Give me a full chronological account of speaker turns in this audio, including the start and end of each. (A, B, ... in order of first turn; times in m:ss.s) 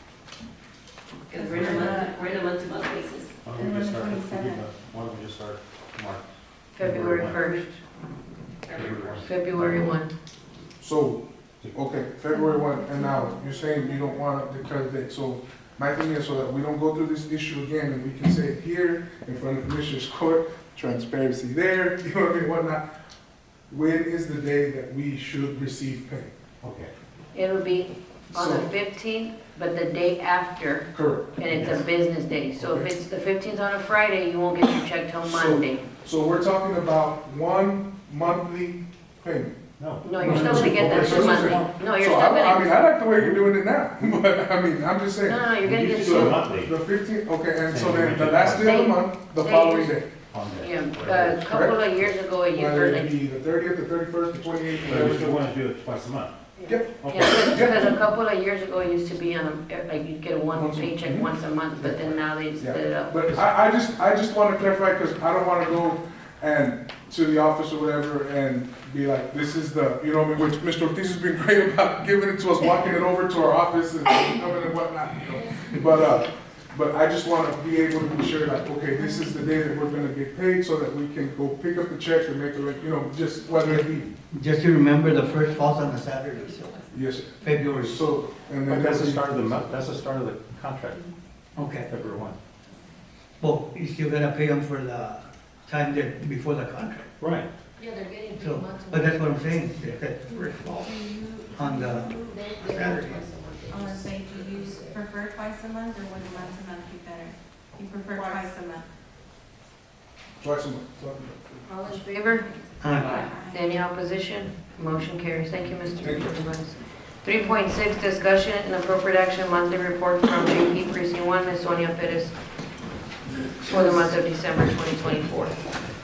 0:01.3-0:03.4 A
0:01.3-0:02.2 B
0:01.6-0:01.8 C
0:03.4-0:07.5 C
0:03.5-0:04.7 B
0:06.8-0:07.7 D
0:08.6-0:09.3 A
0:08.7-0:09.8 C
0:09.2-0:10.1 D
0:10.8-0:22.8 E
0:12.3-0:14.3 B
0:23.7-0:26.3 E
0:26.6-0:26.9 C
0:27.3-0:35.8 D
0:28.3-0:28.7 E
0:30.9-0:31.4 E
0:31.5-0:31.9 C
0:32.6-0:32.9 E
0:35.2-0:39.6 E
0:39.8-0:41.7 C
0:40.0-0:42.9 D
0:40.2-0:45.5 E
0:45.2-0:46.4 D
0:45.6-0:46.7 C
0:46.0-0:50.1 E
0:47.6-0:48.8 C
0:48.6-0:50.0 D
0:50.3-0:52.2 C
0:50.6-0:53.2 D
0:51.4-0:51.8 E
0:52.5-0:55.4 E
0:54.8-0:56.4 C
0:56.6-1:03.5 D
0:56.7-0:57.9 E
0:57.0-0:57.9 C
1:00.5-1:24.1 E
1:15.4-1:15.8 A
1:18.9-1:19.5 B
1:23.6-1:26.8 F
1:26.9-1:29.5 E
1:27.4-1:28.0 F
1:28.6-1:31.0 C
1:31.6-1:31.9 F
1:31.8-1:32.4 C
1:33.4-1:37.1 F
1:37.2-1:37.5 C
1:37.8-1:40.4 D
1:38.3-1:43.3 F
1:40.8-1:42.3 B
1:42.3-1:43.6 D
1:42.9-1:48.8 B
1:50.4-1:51.7 E
1:51.7-1:52.5 D
1:51.8-1:53.6 B
1:52.8-1:53.2 F
1:52.9-1:53.3 A
1:53.5-2:02.4 D
1:56.0-1:56.3 E
2:03.6-2:05.5 D